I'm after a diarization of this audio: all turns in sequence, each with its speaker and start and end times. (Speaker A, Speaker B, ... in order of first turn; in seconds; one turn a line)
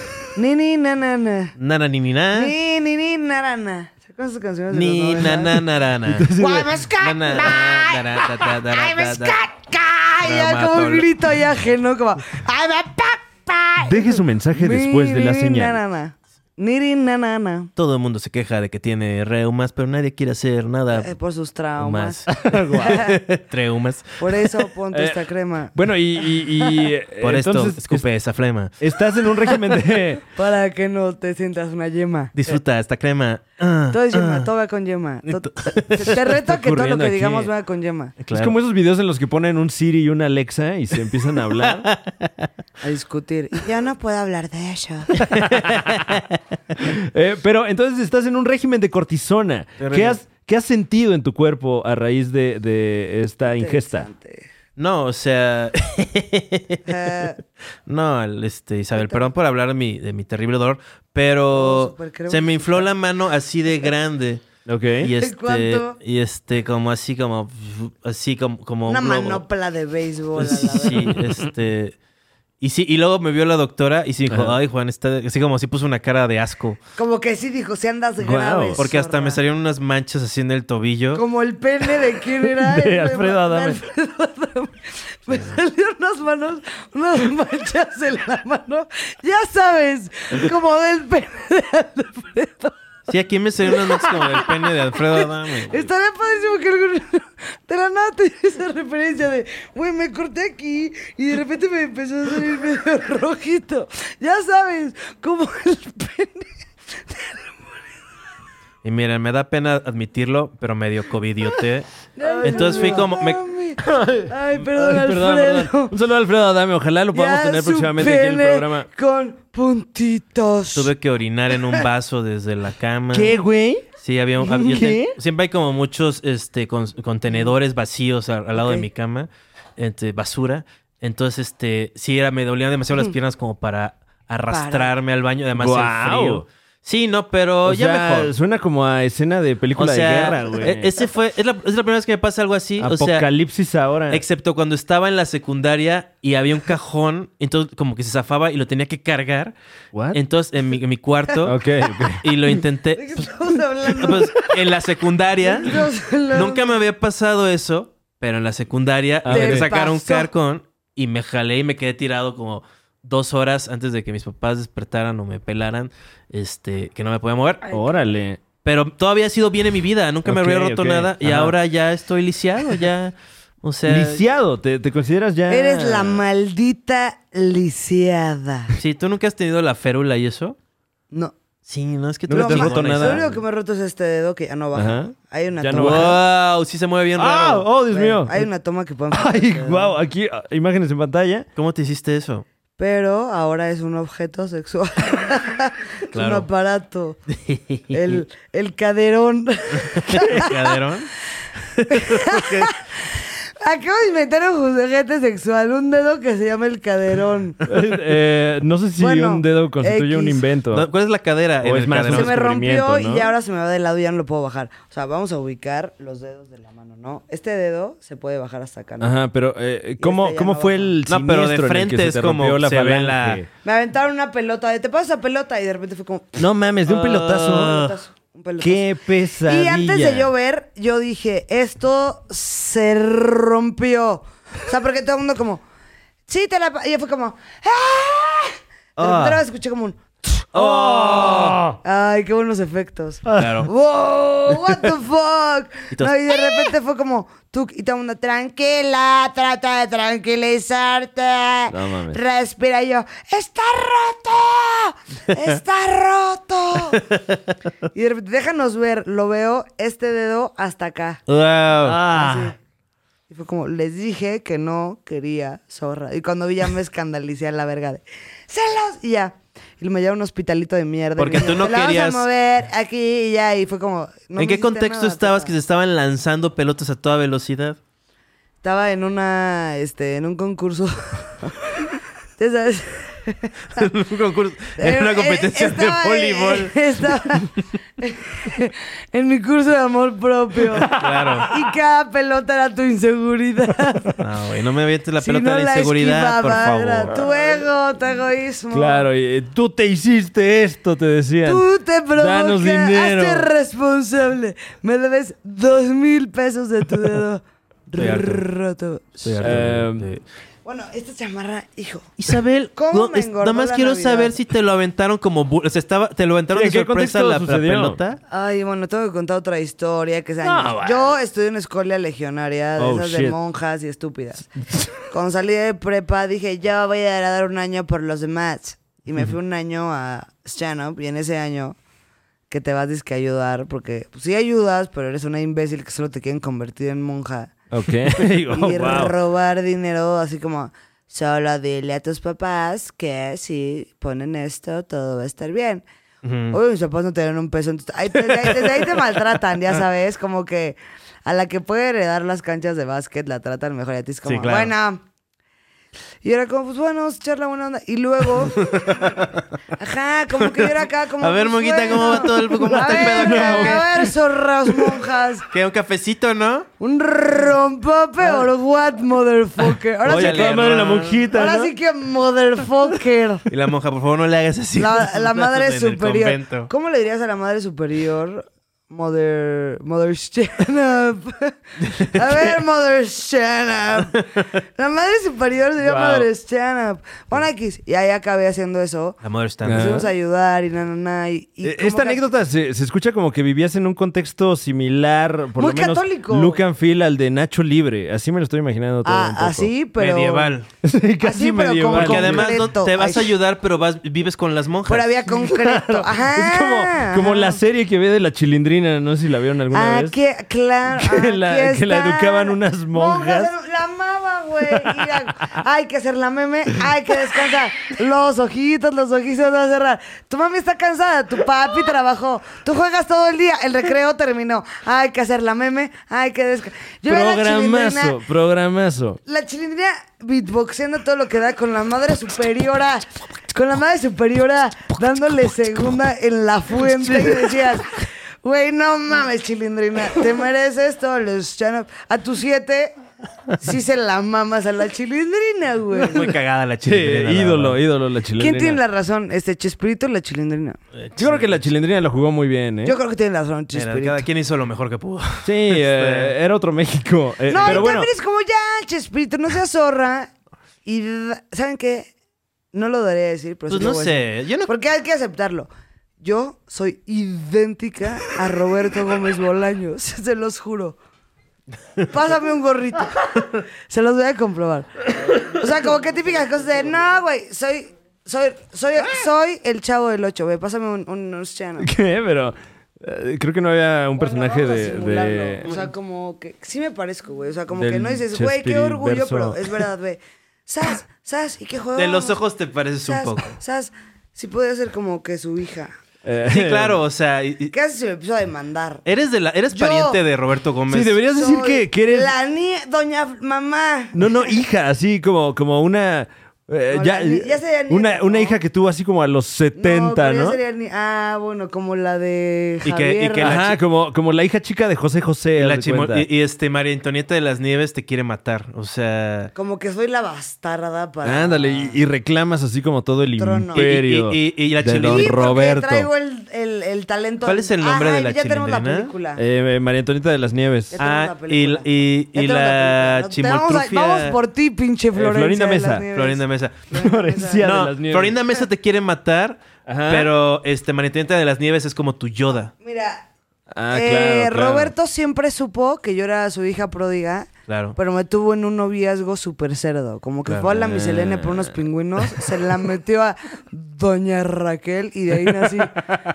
Speaker A: 0.3-1.6
Speaker B: 1.6-2.5
Speaker A: 2.3-5.6
Speaker B: 4.7-6.3
Speaker C: 6.1-6.7
Speaker A: 6.4-17.7
Speaker B: 7.0-9.4
Speaker B: 10.2-11.1
Speaker C: 13.8-15.8
Speaker B: 17.8-21.1
Speaker A: 20.9-23.2
Speaker B: 21.8-24.2
Speaker C: 22.3-23.0
Speaker A: 24.2-26.8
Speaker C: 24.9-25.2
Speaker C: 25.7-28.1
Speaker B: 27.2-28.7
Speaker C: 28.8-30.2
Speaker A: 30.4-32.3
Speaker B: 32.4-34.5
Speaker A: 33.9-38.1
Speaker B: 35.3-36.2
Speaker C: 36.2-37.5
Speaker B: 38.2-38.6
Speaker C: 38.3-41.9
Speaker B: 41.6-42.5
Speaker A: 42.8-45.1
Speaker B: 45.1-46.4
Speaker C: 45.4-46.1
Speaker C: 46.8-54.1
Speaker B: 49.8-50.2
Speaker A: 53.5-54.5
Speaker B: 54.8-57.2
Speaker A: 56.9-57.4
Speaker B: 57.9-64.4
Speaker A: 59.0-59.2
Speaker A: 61.5-62.9
Speaker C: 64.7-65.1
Speaker B: 65.0-69.4
Speaker A: 65.2-66.0
Speaker A: 68.9-71.2
Speaker B: 70.4-72.0
Speaker C: 71.2-71.5
Speaker B: 72.6-76.8
Speaker C: 74.3-74.6
Speaker A: 77.0-79.4
Speaker C: 78.2-78.8
Speaker B: 78.8-81.2
Speaker A: 81.2-92.8
Speaker C: 82.4-83.8
Speaker B: 93.1-95.9
Speaker A: 93.7-107.4
Speaker B: 108.8-111.9
Speaker A: 112.2-115.9
Speaker C: 112.2-113.1
Speaker B: 112.4-113.4
Speaker C: 113.8-118.9
Speaker A: 117.1-120.9
Speaker B: 120.8-123.3
Speaker C: 123.1-123.9
Speaker B: 124.0-138.3
Speaker C: 124.5-125.1
Speaker A: 128.6-128.9
Speaker A: 134.5-134.9
Speaker C: 135.6-136.4
Speaker C: 137.7-140.9
Speaker B: 139.8-143.3
Speaker C: 142.8-144.2
Speaker B: 144.1-149.6
Speaker B: 150.1-151.6
Speaker C: 151.4-152.6
Speaker B: 152.2-153.3
Speaker A: 152.9-154.3
Speaker B: 153.9-167.6
Speaker A: 155.4-156.8
Speaker C: 159.2-159.7
Speaker A: 159.3-160.3
Speaker C: 167.7-168.4
Speaker B: 168.6-174.2
Speaker C: 170.3-171.6
Speaker C: 173.9-176.2
Speaker A: 175.5-178.8
Speaker B: 178.8-180.6
Speaker B: 181.7-183.3
Speaker C: 182.3-183.2
Speaker A: 182.3-186.2
Speaker C: 184.8-186.2
Speaker B: 185.7-187.7
Speaker C: 187.2-188.5
Speaker A: 187.9-189.9
Speaker C: 189.1-191.5
Speaker B: 191.6-192.5
Speaker A: 192.8-197.2
Speaker B: 196.1-196.5
Speaker B: 197.3-197.9
Speaker A: 197.9-200.7
Speaker B: 200.0-201.1
Speaker C: 200.1-200.4
Speaker B: 201.8-202.7
Speaker A: 201.9-202.8
Speaker A: 203.6-207.6
Speaker C: 207.7-210.9
Speaker A: 209.0-210.4
Speaker B: 210.7-212.3
Speaker C: 211.6-213.3
Speaker A: 212.1-219.2
Speaker C: 219.0-223.5
Speaker A: 220.0-220.9
Speaker B: 221.1-223.4
Speaker A: 223.7-226.4
Speaker C: 226.4-227.9
Speaker B: 226.9-227.9
Speaker A: 227.6-235.6
Speaker C: 228.6-230.3
Speaker A: 236.3-240.5
Speaker C: 239.0-239.3
Speaker B: 239.0-239.3
Speaker B: 240.5-241.6
Speaker C: 240.5-241.8
Speaker A: 241.8-257.0
Speaker C: 243.3-243.6
Speaker B: 243.4-243.7
Speaker B: 245.9-246.4
Speaker C: 251.7-252.2
Speaker B: 256.9-257.2
Speaker A: 257.9-261.2
Speaker B: 261.3-262.0
Speaker C: 261.8-262.5
Speaker A: 262.1-262.6
Speaker A: 263.3-275.5
Speaker B: 271.2-272.3
Speaker B: 274.4-277.8
Speaker A: 278.6-281.5
Speaker A: 282.4-283.8
Speaker B: 283.8-287.2
Speaker A: 284.8-294.2
Speaker C: 290.7-291.3
Speaker B: 290.9-291.5
Speaker B: 294.2-297.2
Speaker A: 295.2-299.1
Speaker C: 298.7-303.5
Speaker A: 301.4-309.5
Speaker B: 308.0-308.4
Speaker B: 309.2-310.2
Speaker C: 309.4-310.1
Speaker A: 310.6-312.1
Speaker B: 312.2-318.2
Speaker A: 312.8-314.4
Speaker C: 316.5-318.0
Speaker A: 318.3-324.5
Speaker C: 320.4-321.1
Speaker C: 322.8-323.4
Speaker A: 325.0-331.8
Speaker A: 332.5-337.5
Speaker C: 337.7-339.1
Speaker A: 338.1-345.8
Speaker B: 346.2-346.6
Speaker A: 346.5-355.0
Speaker C: 348.4-348.7
Speaker B: 354.3-354.7
Speaker A: 356.2-359.1
Speaker B: 358.5-359.4
Speaker A: 359.8-365.5
Speaker B: 360.4-363.9
Speaker C: 362.6-364.1
Speaker B: 365.5-366.7
Speaker A: 366.8-370.6
Speaker C: 370.0-371.7
Speaker B: 370.1-371.3
Speaker A: 371.3-373.5
Speaker B: 373.5-376.7
Speaker A: 374.8-384.2
Speaker B: 381.9-382.2
Speaker A: 384.8-389.2
Speaker C: 385.8-386.3
Speaker B: 389.2-390.0
Speaker C: 389.6-390.1
Speaker A: 389.7-392.2
Speaker C: 391.6-399.7
Speaker A: 395.6-396.6
Speaker A: 399.1-400.5
Speaker B: 400.0-400.7
Speaker C: 400.8-402.7
Speaker A: 401.2-403.3
Speaker B: 401.9-405.1
Speaker A: 404.9-407.6
Speaker C: 405.3-410.2
Speaker A: 409.7-428.2
Speaker C: 410.9-413.5
Speaker C: 414.7-415.0
Speaker C: 427.1-429.2
Speaker A: 429.3-442.9
Speaker A: 443.6-446.3
Speaker B: 446.0-447.8
Speaker C: 446.8-448.8
Speaker A: 448.4-450.8
Speaker B: 451.0-451.6
Speaker C: 451.2-453.0
Speaker A: 452.8-454.2
Speaker B: 453.7-456.3
Speaker C: 455.4-458.1
Speaker A: 457.5-460.3
Speaker B: 457.5-457.9
Speaker A: 460.9-462.1
Speaker A: 462.7-465.7
Speaker B: 463.7-464.7
Speaker A: 466.2-471.0
Speaker A: 472.1-473.3
Speaker A: 473.9-474.9
Speaker A: 475.4-481.9
Speaker C: 481.8-485.7
Speaker A: 484.2-492.4
Speaker C: 487.7-489.8
Speaker B: 492.0-493.6
Speaker A: 493.0-495.9
Speaker C: 496.2-497.0
Speaker B: 496.5-497.7
Speaker A: 497.7-499.0
Speaker B: 499.1-501.2
Speaker A: 499.7-500.2
Speaker C: 500.9-502.3
Speaker A: 501.3-504.5
Speaker C: 504.1-510.6
Speaker A: 506.9-508.6
Speaker A: 509.8-513.6
Speaker B: 512.9-513.8
Speaker C: 513.4-516.3
Speaker B: 515.6-519.5
Speaker A: 519.5-522.0
Speaker C: 521.2-526.1
Speaker A: 523.4-523.9
Speaker B: 523.7-525.5
Speaker A: 525.1-529.4
Speaker B: 527.5-529.1
Speaker C: 529.4-531.0
Speaker A: 530.9-537.7
Speaker B: 531.0-534.4
Speaker C: 535.1-536.1
Speaker B: 536.1-536.8
Speaker C: 536.9-538.4
Speaker B: 537.6-542.7
Speaker C: 539.9-540.3
Speaker A: 542.8-543.3
Speaker C: 543.7-544.9
Speaker A: 543.9-556.0
Speaker B: 547.7-548.0
Speaker C: 550.7-551.8